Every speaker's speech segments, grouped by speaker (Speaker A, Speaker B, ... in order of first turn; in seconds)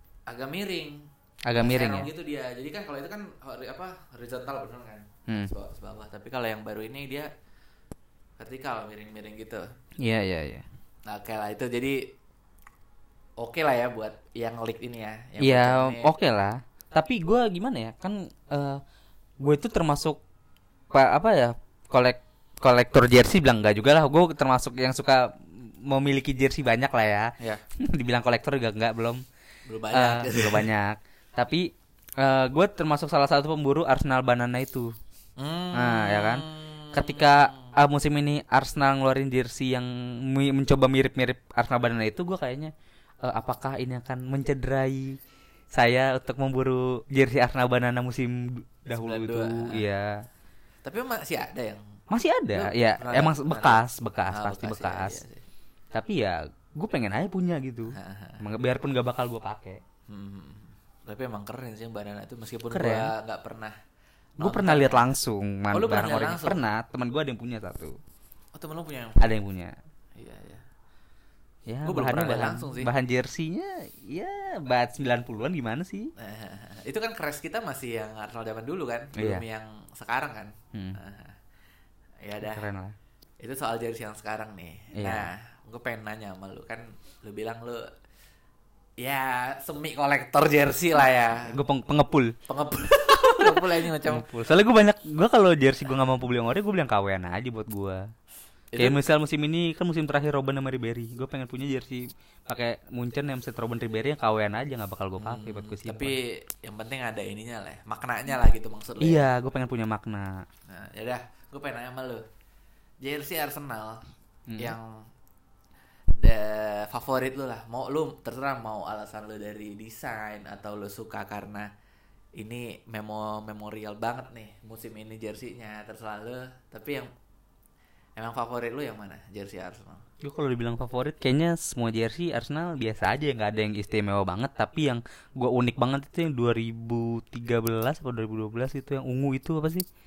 Speaker A: 0.3-7.3, 8.4-9.7, 11.1-12.1, 13.4-16.1, 29.7-30.7, 35.4-37.7, 48.9-49.8, 50.9-51.8, 52.5-55.4, 57.9-58.4, 60.1-63.8, 64.4-65.1, 65.7-66.6, 68.5-69.3, 70.2-70.6, 71.8-72.9, 76.2-81.4, 82.2-82.7, 83.4-87.9, 89.0-91.5, 92.5-94.4, 98.7-99.0, 105.2-109.3, 110.7-112.2, 113.0-114.0, 114.6-115.1, 116.2-121.7, 122.4-127.1, 128.2-130.0
Speaker B: 1.5-2.1, 10.0-10.7, 15.4-18.8, 19.4-20.2, 20.9-29.2, 29.9-34.9, 35.7-42.7, 43.2-45.2, 45.7-50.2, 52.1-55.2, 55.9-59.8, 62.7-63.1, 64.4-68.0, 69.2-69.8, 71.7-76.1, 79.2-79.4, 82.4-83.0, 85.0-85.3, 91.4-92.3, 93.2-98.1, 98.8-106.2, 109.0-110.5, 114.5-114.8, 130.2-139.8